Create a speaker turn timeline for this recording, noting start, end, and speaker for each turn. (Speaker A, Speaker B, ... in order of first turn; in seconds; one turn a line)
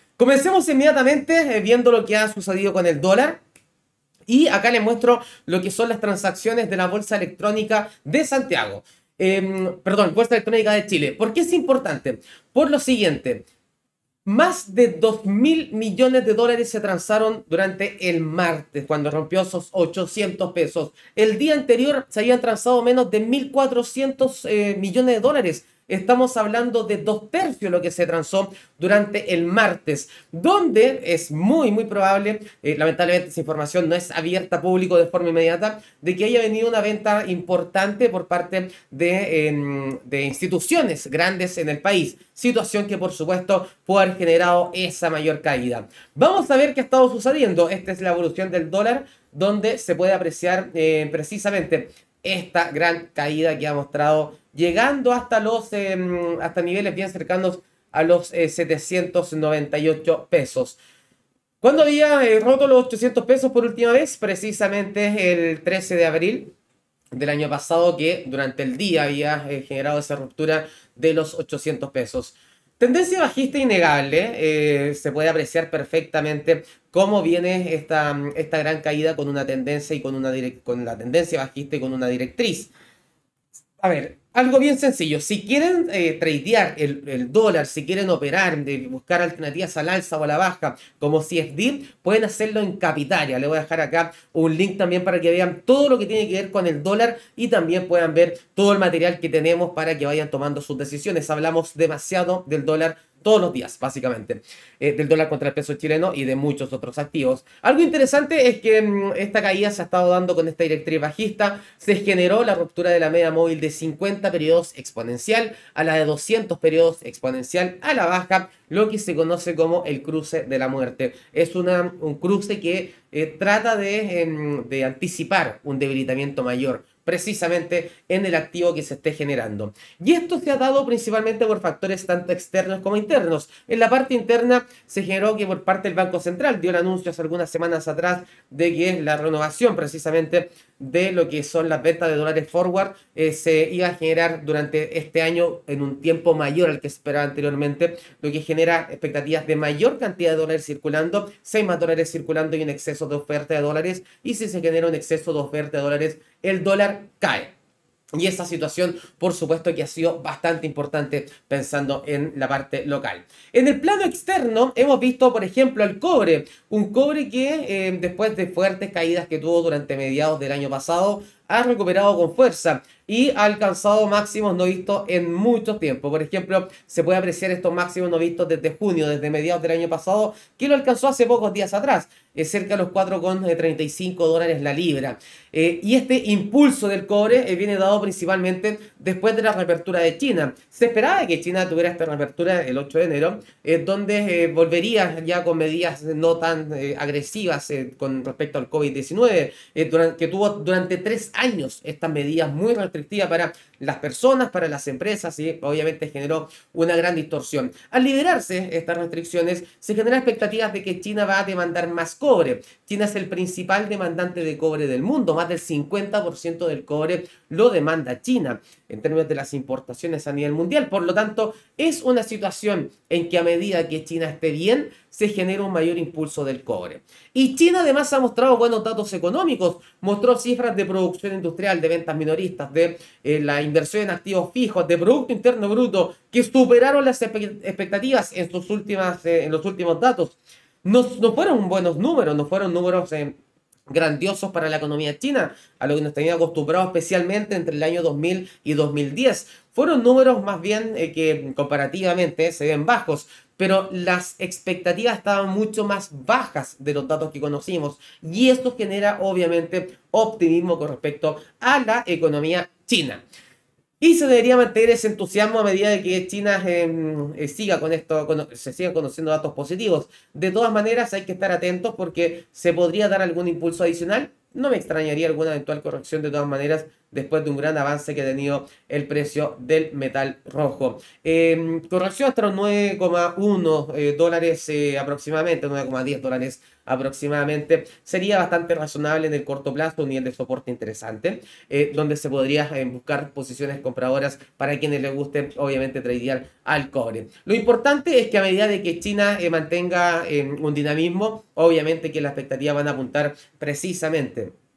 Speaker A: 0.2-3.4
Speaker A: 4.3-13.4
Speaker A: 14.2-60.8
Speaker A: 61.6-66.5
Speaker A: 67.1-82.7
Speaker A: 83.8-157.5
Speaker A: 158.2-243.4
Speaker A: 243.9-263.2
Speaker A: 264.0-304.5